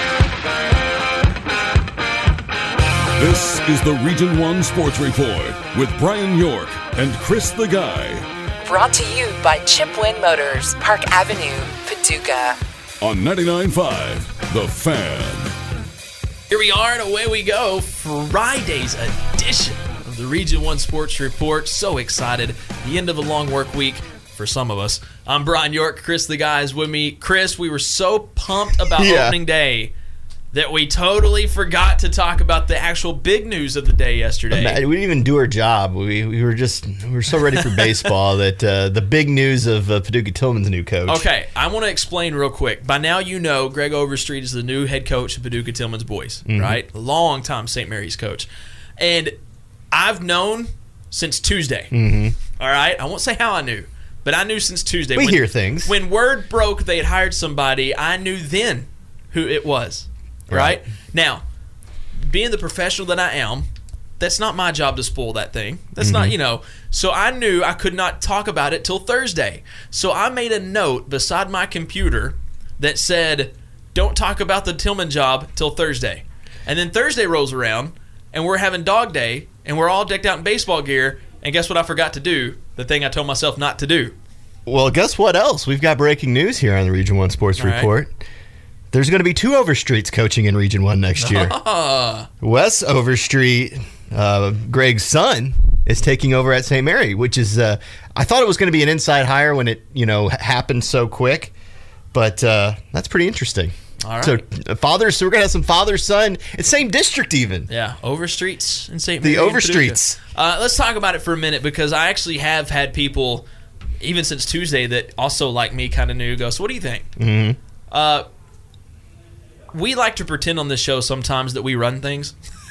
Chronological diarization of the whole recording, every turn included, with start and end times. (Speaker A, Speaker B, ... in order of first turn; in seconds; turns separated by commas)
Speaker A: 3.2-8.3, Speaker B: 8.6-12.6, Speaker A: 13.0-15.5, Speaker C: 16.5-29.9, Speaker D: 28.9-29.4, Speaker C: 30.5-34.8, Speaker D: 34.5-41.2, Speaker C: 37.6-38.0, Speaker C: 41.0-48.5, Speaker D: 46.5-46.8, Speaker C: 49.0-49.4, Speaker C: 49.9-51.9, Speaker D: 51.9-52.4, Speaker C: 52.6-61.4, Speaker D: 55.1-55.9, Speaker D: 60.5-60.8, Speaker C: 62.2-63.7, Speaker C: 64.2-84.1, Speaker D: 66.0-66.3, Speaker D: 84.7-88.1, Speaker C: 87.6-87.9, Speaker D: 88.9-91.5, Speaker C: 91.2-92.3, Speaker D: 92.4-101.5, Speaker D: 102.1-107.7, Speaker C: 104.0-104.4, Speaker C: 107.7-113.5, Speaker D: 109.2-110.2, Speaker C: 114.0-117.1, Speaker D: 117.2-117.6, Speaker C: 117.9-118.2, Speaker C: 119.7-122.3